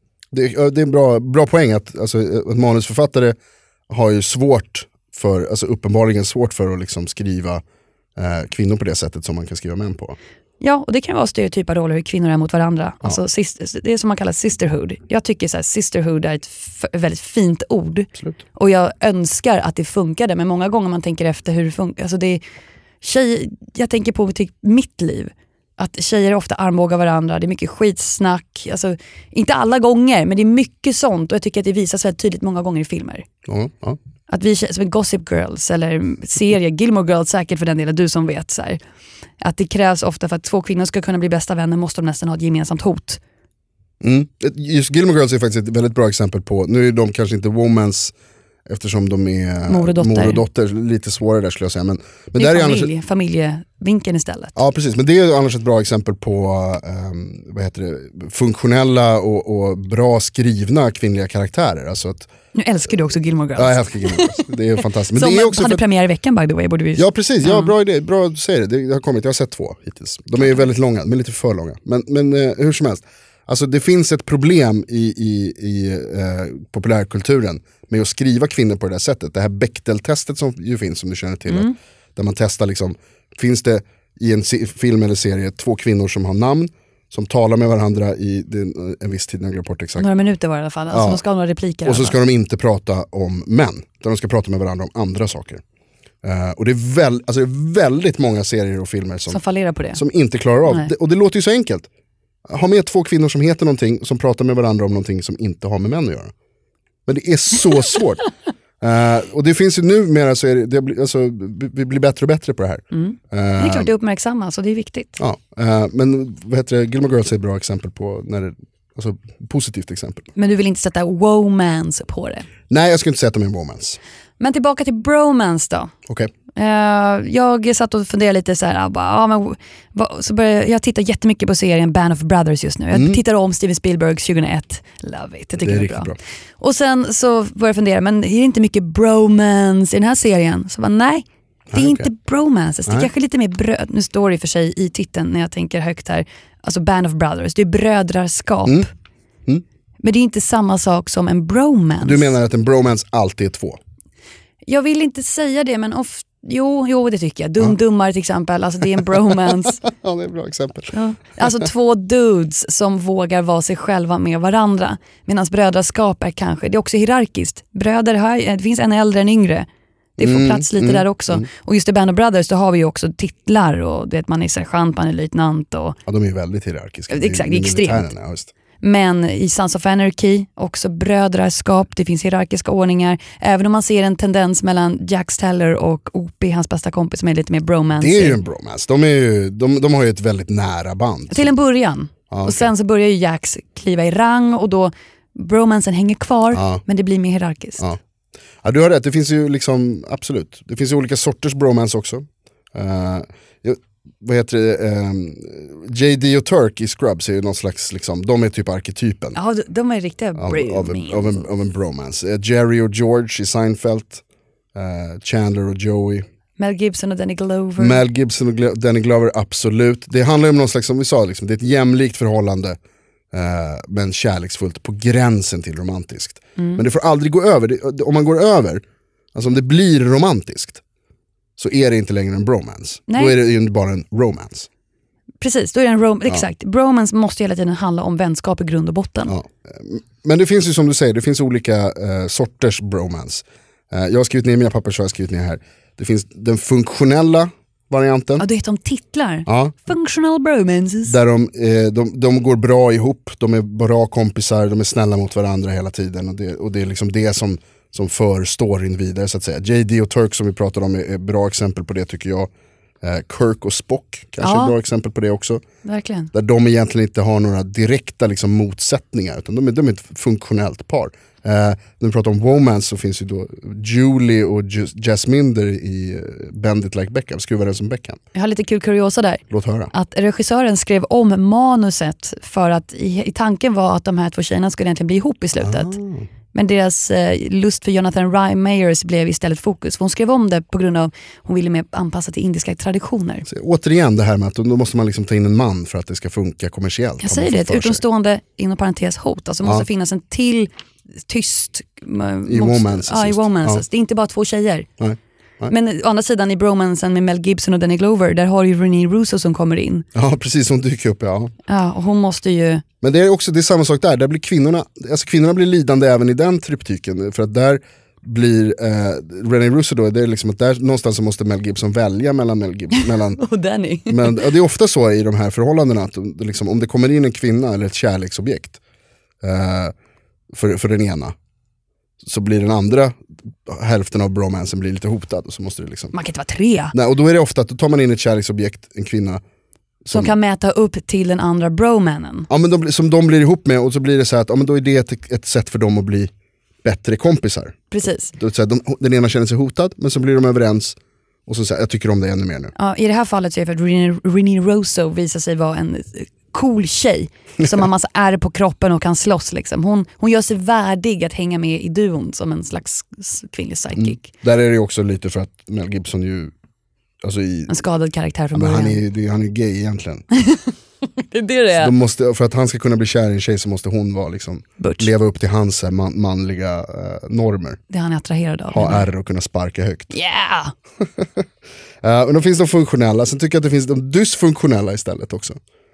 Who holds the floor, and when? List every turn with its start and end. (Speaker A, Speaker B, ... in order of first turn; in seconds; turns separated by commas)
Speaker A: 0.3-3.4, Speaker A: 3.9-7.6, Speaker A: 8.2-10.2, Speaker B: 10.6-22.4, Speaker B: 23.0-33.2, Speaker A: 33.5-34.0, Speaker B: 34.3-38.8, Speaker B: 39.4-43.2, Speaker A: 44.0-48.1, Speaker A: 48.7-52.9, Speaker B: 49.7-50.4, Speaker B: 52.4-54.5, Speaker A: 54.5-62.3, Speaker B: 62.5-64.4, Speaker A: 63.5-65.8, Speaker B: 65.1-67.7, Speaker A: 67.0-90.1, Speaker B: 81.5-81.7, Speaker B: 90.0-92.2, Speaker A: 90.9-91.2, Speaker A: 91.8-95.6, Speaker A: 96.2-99.4, Speaker B: 99.3-100.0, Speaker A: 99.9-101.9, Speaker A: 102.5-106.3, Speaker A: 107.0-108.2, Speaker A: 108.8-113.9, Speaker B: 112.9-115.2, Speaker A: 115.2-120.3, Speaker B: 120.3-122.5, Speaker A: 122.7-124.0, Speaker B: 124.4-125.9, Speaker B: 126.5-148.9, Speaker A: 132.9-133.2, Speaker A: 135.6-136.2, Speaker A: 141.7-142.1, Speaker B: 150.0-152.3, Speaker A: 152.0-153.8, Speaker B: 154.7-159.8, Speaker A: 159.8-160.9, Speaker B: 160.9-169.7, Speaker B: 170.2-176.0, Speaker A: 170.2-171.4, Speaker A: 176.1-178.5, Speaker B: 177.1-178.1, Speaker B: 178.8-188.4, Speaker A: 188.0-191.5, Speaker B: 191.3-197.8, Speaker A: 192.3-192.7, Speaker A: 196.5-196.8, Speaker A: 198.6-209.4, Speaker B: 209.3-211.4, Speaker A: 210.4-214.2, Speaker A: 214.7-216.2, Speaker B: 216.6-218.0, Speaker A: 217.8-222.8, Speaker A: 223.3-228.8, Speaker B: 226.6-226.8, Speaker A: 229.3-230.8, Speaker A: 231.6-234.7, Speaker B: 233.1-233.4, Speaker B: 235.4-239.3, Speaker A: 239.3-248.4, Speaker B: 248.4-251.2, Speaker A: 249.5-249.9, Speaker A: 251.1-262.5, Speaker A: 263.0-265.6, Speaker B: 264.4-264.7, Speaker B: 265.8-266.3, Speaker A: 266.3-278.2, Speaker B: 278.3-285.9, Speaker A: 279.5-279.9, Speaker A: 285.6-286.2, Speaker B: 286.5-293.4, Speaker A: 293.5-298.0, Speaker B: 297.2-300.7, Speaker B: 301.3-304.9, Speaker A: 302.5-303.8, Speaker A: 305.0-305.7, Speaker B: 305.7-310.0, Speaker A: 310.1-311.5, Speaker B: 311.7-312.8, Speaker A: 313.0-323.4, Speaker B: 322.9-324.5, Speaker A: 324.1-328.8, Speaker A: 329.4-329.9, Speaker A: 330.5-331.3, Speaker A: 332.2-336.1, Speaker B: 336.1-336.9, Speaker A: 336.9-339.4, Speaker A: 340.0-340.4, Speaker B: 340.1-342.5, Speaker A: 342.5-346.3, Speaker A: 346.8-352.7, Speaker B: 347.9-348.3, Speaker B: 352.8-364.2, Speaker A: 363.9-366.5, Speaker A: 367.2-367.7, Speaker B: 367.7-369.0, Speaker A: 368.5-370.2, Speaker B: 371.2-371.9, Speaker A: 371.8-377.8, Speaker B: 374.8-375.1, Speaker B: 377.9-379.1, Speaker A: 378.7-380.1, Speaker B: 380.1-380.7, Speaker A: 382.0-385.6